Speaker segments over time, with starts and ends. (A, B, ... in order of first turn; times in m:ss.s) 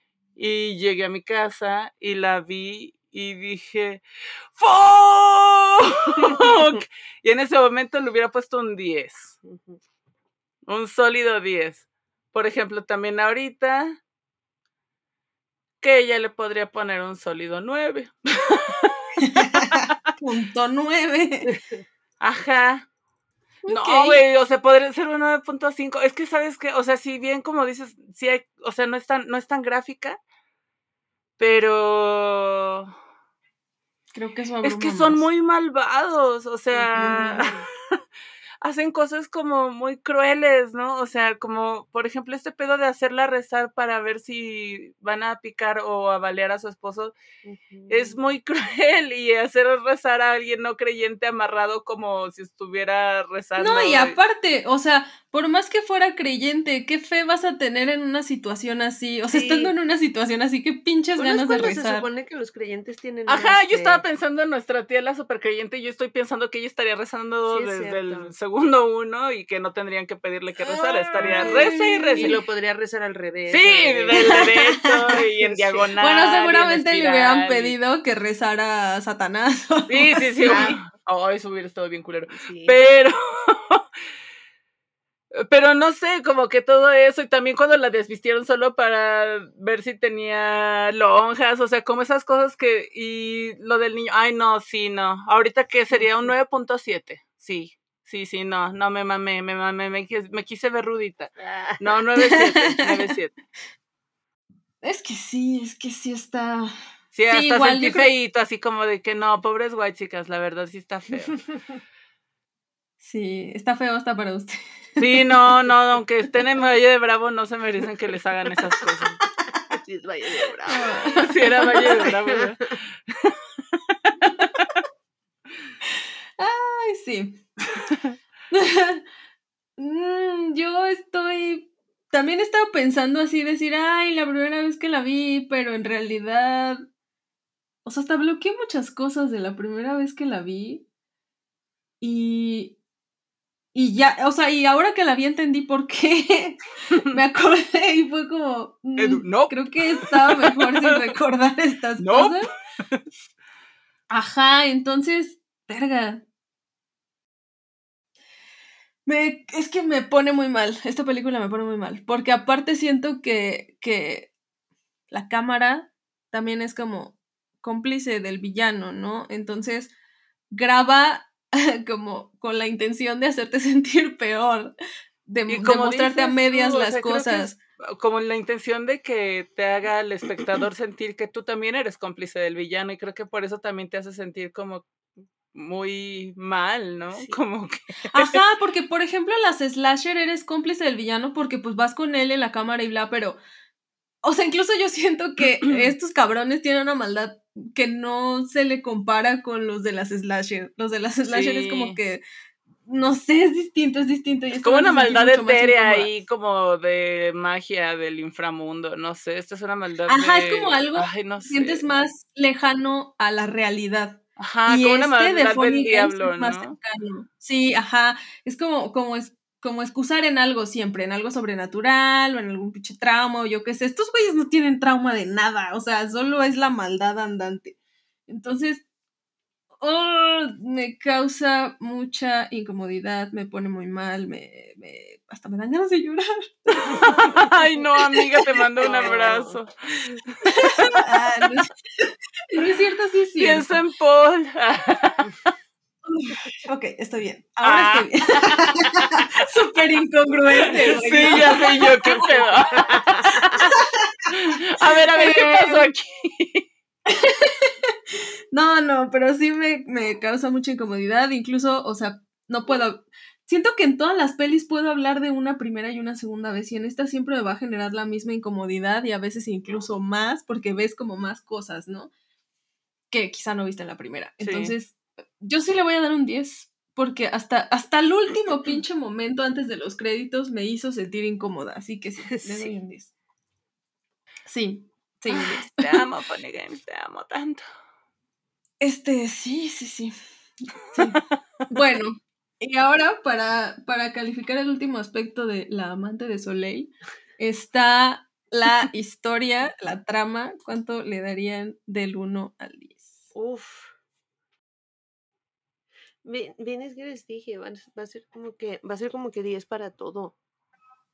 0:00.4-0:04.0 A
0:04.5-0:09.4 A
0:09.4-0:09.8 B
0:10.7-0:14.0 A
0:15.8-0:20.0 A
0:19.2-0:21.5 C
0:21.5-0:21.8 B
0:22.2-0:22.9 A
0:23.6-0:24.2 C
0:23.7-0:30.2 A
0:31.4-0:32.9 A
0:34.1-0:35.3 C
0:34.6-0:37.6 A
0:36.7-0:37.7 B
0:36.9-0:37.5 C
0:38.6-0:47.1 A
0:47.4-0:48.3 B
0:47.9-0:54.2 A
0:53.6-1:02.1 C
0:59.3-0:59.8 B
1:01.2-1:04.0 B
1:03.3-1:12.4 A
1:07.5-1:08.3 B
1:10.6-1:15.9 B
1:11.2-1:12.4 C
1:13.5-1:17.8 A
1:14.2-1:15.2 C
1:16.0-1:20.8 C
1:19.9-1:23.8 A
1:20.4-1:20.8 B
1:22.4-1:22.8 B
1:25.3-1:43.3 A
1:35.9-1:36.3 B
1:41.4-1:41.9 B
1:42.2-1:43.1 C
1:44.8-1:46.8 C
1:47.1-1:51.4 A
1:47.3-1:48.1 C
1:53.0-1:55.2 C
1:55.0-1:59.2 A
1:59.7-2:01.2 B
2:00.7-2:02.0 C
2:01.2-2:04.7 A
2:01.8-2:02.5 B
2:06.4-2:07.4 C
2:08.5-2:09.0 C
2:09.8-2:16.8 C
2:17.8-2:20.8 C
2:22.0-2:22.8 C
2:23.7-2:32.5 C
2:29.0-2:31.2 A
2:32.0-2:33.0 A
2:34.1-2:36.2 C
2:39.1-2:44.3 C
2:45.1-2:49.9 C
2:50.5-2:54.8 C
2:55.3-2:57.6 C
2:55.5-3:04.9 A
3:05.5-3:08.4 A
3:07.2-3:07.4 B
3:08.1-3:13.4 C
3:14.2-3:22.2 C
3:15.6-3:15.9 A
3:21.3-3:22.0 A
3:22.9-3:26.1 C
3:24.6-3:31.9 A
3:30.1-3:47.8 C
3:34.4-3:36.8 A
3:48.3-3:48.8 C
3:49.8-3:59.1 C
3:57.0-4:01.2 A
3:58.8-3:59.6 B
4:00.4-4:03.8 C
4:03.4-4:05.3 A
4:06.1-4:12.3 C
4:07.6-4:09.4 A
4:10.9-4:13.8 A
4:12.2-4:13.6 B
4:13.3-4:15.9 C
4:14.3-4:16.6 A
4:17.1-4:32.1 C
4:33.1-4:43.1 C
4:34.4-4:34.7 A
4:42.3-4:42.7 B
4:44.5-4:46.0 C
4:45.3-4:47.6 A
4:48.8-4:50.2 C
4:50.9-5:03.3 C
5:03.3-5:03.9 B
5:06.2-5:10.4 B